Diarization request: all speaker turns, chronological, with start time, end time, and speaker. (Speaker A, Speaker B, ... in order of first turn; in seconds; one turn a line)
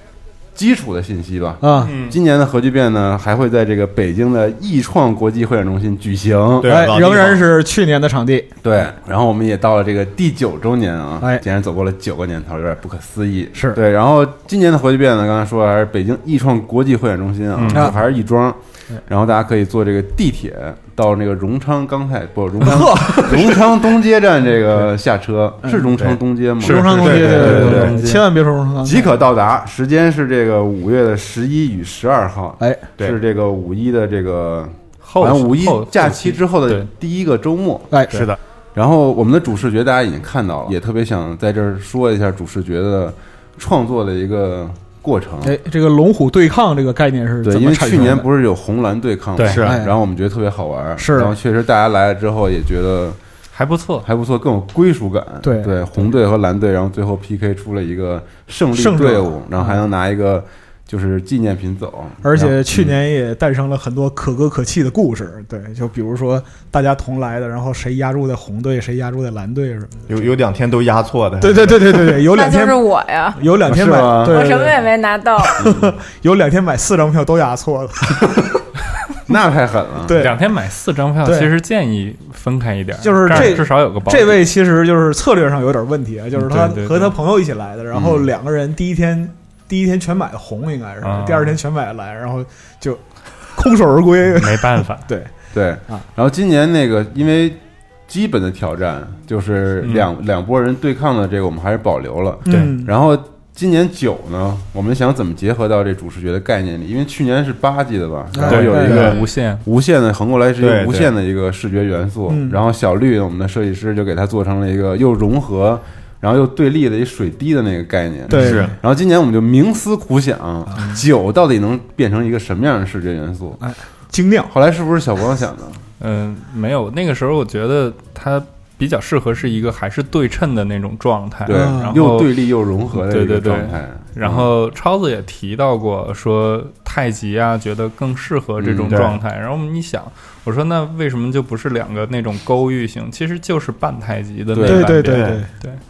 Speaker A: 0.5-6.8
Speaker B: 1.6-1.9
Speaker C: 1.8-2.2
Speaker D: 6.6-7.5
Speaker B: 6.7-8.5
Speaker A: 8.6-28.0
Speaker C: 17.6-17.9
Speaker B: 22.6-23.6
Speaker B: 25.6-25.9
Speaker C: 26.6-28.3
Speaker B: 26.6-29.1
Speaker D: 27.0-27.8
Speaker A: 28.8-38.0
Speaker B: 32.6-32.9
Speaker C: 35.0-36.9
Speaker B: 37.9-38.2
Speaker A: 38.7-45.5
Speaker B: 45.4-48.3
Speaker A: 47.4-53.2
Speaker C: 49.4-49.6
Speaker D: 49.5-49.8
Speaker B: 49.6-50.0
Speaker B: 51.0-51.3
Speaker C: 53.5-54.0
Speaker A: 54.0-62.9
Speaker B: 55.4-55.7
Speaker B: 58.7-59.8
Speaker B: 62.2-70.0
Speaker D: 70.1-72.0
Speaker B: 71.4-72.8
Speaker E: 72.3-73.4
Speaker B: 73.3-74.8
Speaker A: 73.6-74.5
Speaker E: 74.1-75.6
Speaker B: 75.5-78.4
Speaker A: 75.6-75.9
Speaker A: 79.3-80.3
Speaker B: 80.0-80.5
Speaker C: 80.2-84.4
Speaker B: 81.2-81.5
Speaker B: 83.0-95.3
Speaker A: 83.3-83.6
Speaker C: 86.3-87.1
Speaker A: 87.9-88.3
Speaker C: 91.0-91.6
Speaker C: 94.3-95.1
Speaker A: 95.5-123.6
Speaker C: 99.8-100.1
Speaker B: 102.5-102.9
Speaker B: 108.3-109.1
Speaker C: 108.5-109.6
Speaker D: 108.8-109.1
Speaker D: 110.6-111.1
Speaker B: 112.3-112.5
Speaker B: 118.3-118.7
Speaker D: 118.3-118.7
Speaker B: 123.6-124.5
Speaker A: 124.5-125.8
Speaker C: 126.0-132.3
Speaker A: 131.4-134.5
Speaker B: 131.5-131.9
Speaker C: 132.9-145.8
Speaker A: 138.6-139.1
Speaker D: 138.9-139.1
Speaker A: 144.5-145.0
Speaker B: 144.6-145.5
Speaker D: 145.0-145.4